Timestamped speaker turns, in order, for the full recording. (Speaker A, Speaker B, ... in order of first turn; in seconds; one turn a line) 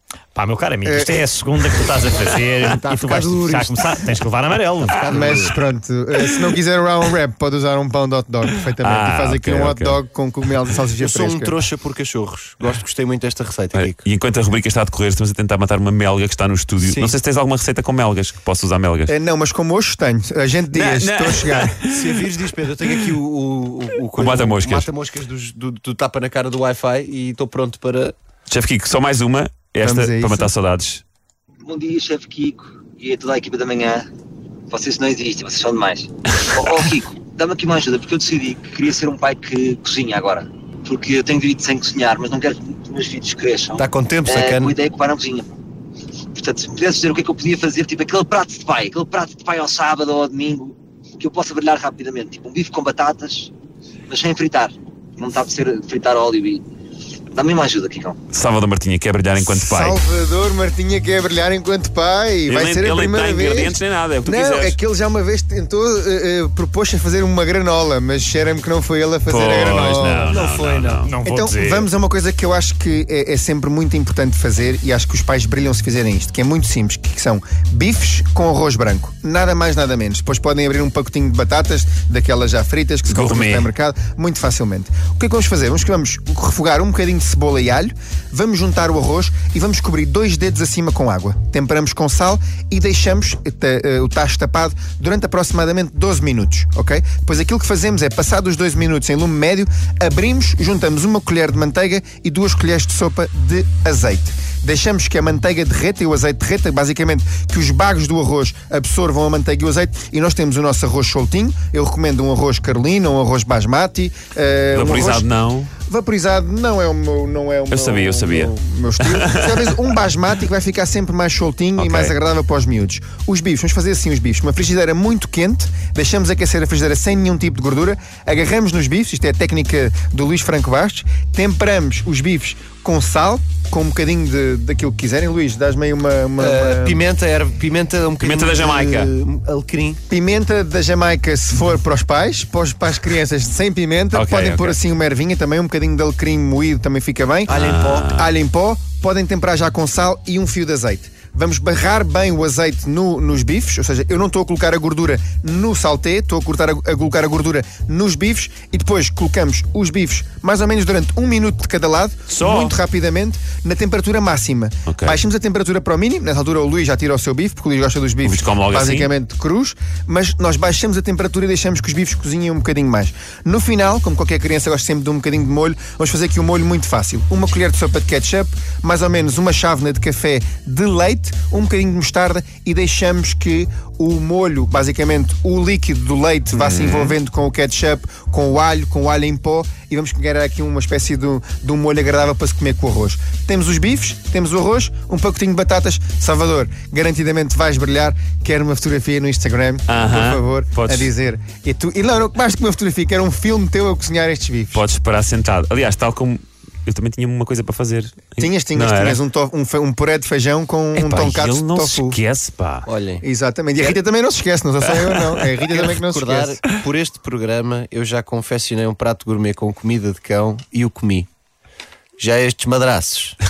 Speaker A: 0.3-5.0
Speaker B: 0.8-1.3
Speaker C: 2.6-4.1
Speaker C: 4.9-5.5
Speaker B: 5.1-11.6
Speaker D: 8.8-10.0
Speaker C: 11.0-14.1
Speaker D: 13.7-19.1
Speaker C: 16.8-17.2
Speaker B: 19.1-21.7
Speaker D: 20.7-22.3
Speaker C: 21.8-28.1
Speaker D: 22.8-23.1
Speaker D: 24.1-24.9
Speaker D: 28.5-31.0
Speaker B: 29.8-30.5
Speaker E: 31.6-34.0
Speaker E: 34.7-45.5
Speaker C: 43.8-44.8
Speaker E: 46.4-53.5
Speaker E: 54.1-56.6
Speaker E: 57.3-58.2
Speaker D: 58.3-60.0
Speaker B: 59.4-70.4
Speaker D: 62.5-64.8
Speaker D: 69.3-71.9
Speaker C: 70.4-71.1
Speaker A: 70.5-71.3
Speaker B: 71.2-115.3
Speaker D: 83.1-83.7
Speaker D: 114.7-115.7
Speaker B: 115.9-137.0
Speaker D: 117.7-119.7
Speaker D: 121.8-122.1
Speaker C: 136.4-140.0
Speaker D: 138.2-139.1
Speaker B: 140.1-204.8
Speaker D: 144.1-144.8
Speaker C: 147.5-148.1
Speaker D: 147.5-148.3
Speaker D: 162.3-162.8
Speaker D: 164.9-165.2
Speaker D: 168.2-169.1
Speaker D: 186.6-187.2
Speaker D: 199.9-201.1
Speaker D: 204.7-209.2
Speaker B: 208.4-212.2
Speaker D: 211.0-212.9
Speaker C: 212.8-213.2
Speaker B: 213.2-216.6
Speaker C: 215.7-221.3
Speaker C: 222.2-223.4